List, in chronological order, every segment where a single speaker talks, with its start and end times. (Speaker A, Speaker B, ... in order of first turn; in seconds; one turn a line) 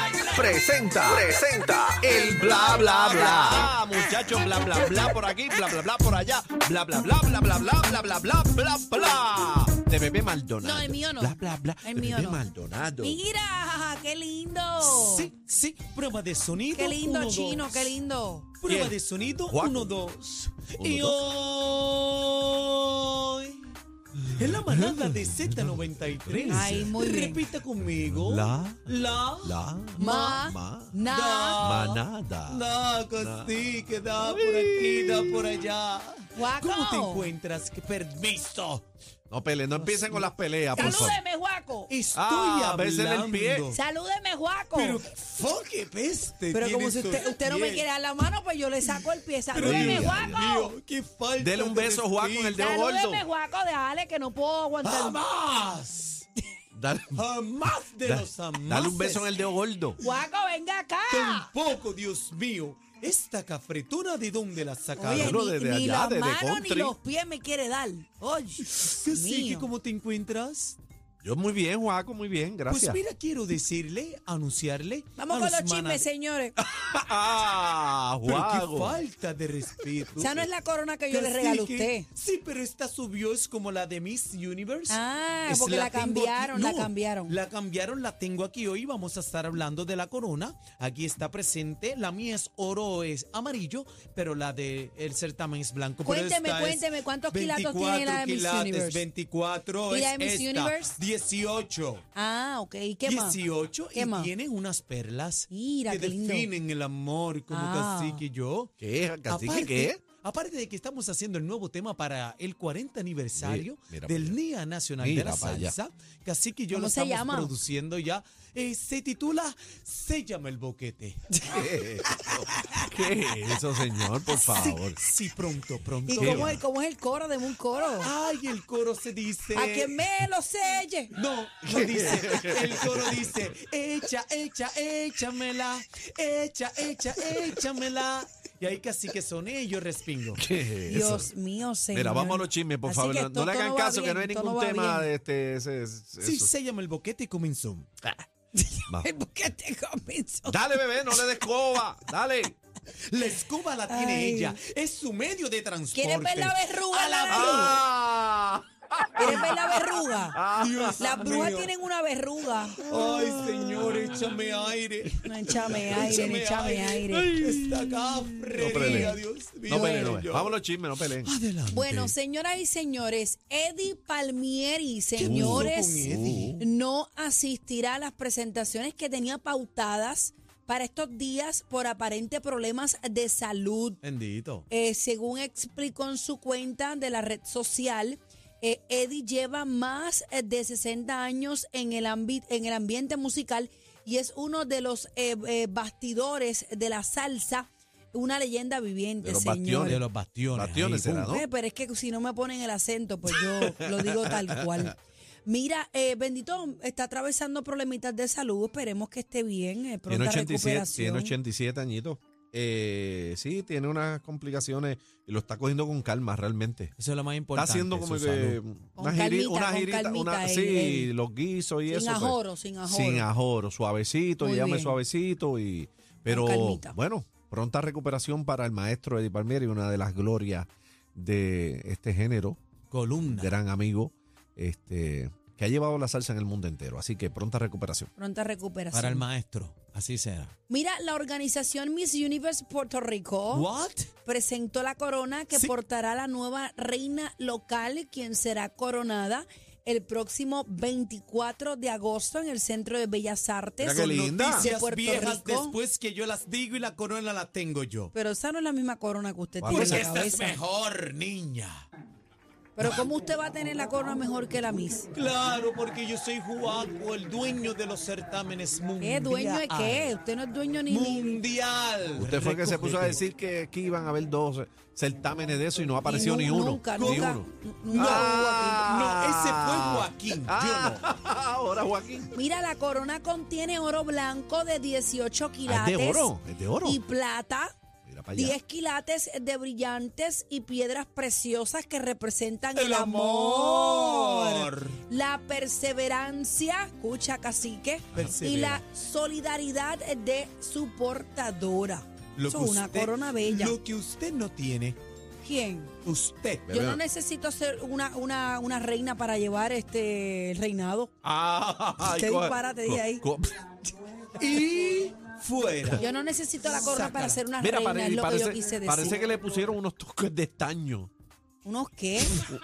Speaker A: 0.3-3.7
Speaker B: 0.9-1.3
Speaker B: 2.0-13.2
Speaker C: 10.6-12.4
Speaker C: 13.0-15.3
Speaker D: 14.8-17.9
Speaker C: 16.7-18.5
Speaker D: 18.6-23.7
Speaker B: 18.6-18.9
Speaker B: 19.5-19.9
Speaker B: 20.8-21.2
Speaker D: 24.3-30.4
Speaker B: 24.7-27.0
Speaker C: 26.5-27.4
Speaker B: 28.1-28.5
Speaker B: 29.4-31.0
Speaker C: 29.9-31.6
Speaker D: 31.1-38.8
Speaker B: 31.6-32.6
Speaker B: 33.2-33.5
Speaker B: 34.2-35.5
Speaker C: 36.3-37.3
Speaker B: 39.3-41.2
Speaker D: 39.8-41.2
Speaker C: 40.7-41.9
Speaker D: 41.9-43.8
Speaker B: 42.1-43.6
Speaker C: 43.7-45.0
Speaker D: 44.7-47.9
Speaker C: 46.5-50.7
Speaker D: 48.8-52.6
Speaker B: 49.6-50.4
Speaker B: 51.4-53.2
Speaker C: 52.6-55.2
Speaker D: 54.8-56.2
Speaker B: 56.7-57.2
Speaker D: 57.1-59.3
Speaker B: 58.0-60.0
Speaker C: 60.0-61.5
Speaker D: 61.1-65.4
Speaker C: 65.0-69.7
Speaker B: 65.0-66.9
Speaker D: 68.6-70.8
Speaker B: 71.2-73.0
Speaker D: 72.7-76.0
Speaker C: 75.2-76.5
Speaker B: 76.6-79.0
Speaker D: 78.2-80.5
Speaker C: 80.2-82.1
Speaker D: 81.1-102.0
Speaker C: 84.9-87.4
Speaker C: 96.0-99.0
Speaker C: 99.9-101.0
Speaker C: 102.1-103.4
Speaker D: 103.0-108.7
Speaker C: 103.9-104.3
Speaker C: 105.5-106.5
Speaker C: 107.5-108.2
Speaker B: 108.8-110.0
Speaker D: 109.3-121.2
Speaker B: 113.3-114.3
Speaker B: 115.0-115.7
Speaker C: 116.7-117.5
Speaker C: 121.3-121.6
Speaker B: 121.4-125.0
Speaker C: 122.2-122.8
Speaker C: 124.3-124.7
Speaker D: 124.5-126.6
Speaker C: 126.0-128.1
Speaker B: 126.2-126.6
Speaker D: 128.0-130.1
Speaker C: 129.5-131.1
Speaker D: 131.1-140.4
Speaker B: 131.7-133.3
Speaker B: 140.4-141.3
Speaker C: 140.9-145.1
Speaker B: 141.9-146.5
Speaker D: 146.2-147.9
Speaker C: 148.5-150.6
Speaker B: 150.4-152.6
Speaker D: 153.1-157.8
Speaker C: 153.9-154.6
Speaker C: 155.9-157.8
Speaker B: 157.3-161.3
Speaker C: 159.2-160.4
Speaker D: 160.5-161.7
Speaker C: 161.0-162.8
Speaker B: 162.8-164.1
Speaker D: 162.8-170.6
Speaker C: 165.2-167.5
Speaker B: 167.2-171.3
Speaker C: 169.7-170.2
Speaker D: 171.2-172.1
Speaker C: 171.7-184.0
Speaker D: 175.1-176.6
Speaker B: 175.2-176.6
Speaker D: 184.0-184.7
Speaker C: 184.7-200.0
Speaker B: 199.2-201.4
Speaker D: 199.8-201.4
Speaker C: 201.3-211.3
Speaker B: 203.3-204.9
Speaker B: 210.1-216.9
Speaker D: 217.0-218.6
Speaker B: 217.5-232.6
Speaker C: 218.9-221.1
Speaker C: 221.9-223.3
Speaker C: 224.4-225.0
Speaker C: 226.2-226.9
Speaker D: 232.9-233.6
Speaker B: 233.3-238.1
Speaker C: 238.2-239.2
Speaker D: 238.9-240.5
Speaker C: 240.7-243.7
Speaker D: 243.5-244.1
Speaker C: 244.2-255.8
Speaker B: 253.8-254.7
Speaker D: 253.9-258.1
Speaker C: 258.1-260.6
Speaker B: 259.6-260.1
Speaker D: 259.6-261.9
Speaker C: 262.8-265.1
Speaker D: 265.1-270.1
Speaker C: 269.0-271.4
Speaker D: 270.9-273.2
Speaker B: 272.2-282.3
Speaker C: 276.0-278.9
Speaker D: 276.9-281.0
Speaker C: 282.3-286.3
Speaker B: 285.6-287.0
Speaker C: 286.8-287.7
Speaker B: 288.1-288.6
Speaker C: 288.3-303.8
Speaker D: 292.7-295.0
Speaker D: 298.1-298.8
Speaker D: 302.4-305.0
Speaker C: 305.4-305.9
Speaker D: 306.0-306.8
Speaker B: 306.7-307.0
Speaker C: 306.7-311.1
Speaker B: 311.2-313.9
Speaker C: 312.0-313.2
Speaker D: 314.4-316.1
Speaker C: 315.9-319.2
Speaker D: 316.6-317.4
Speaker B: 317.6-321.1
Speaker C: 321.6-322.5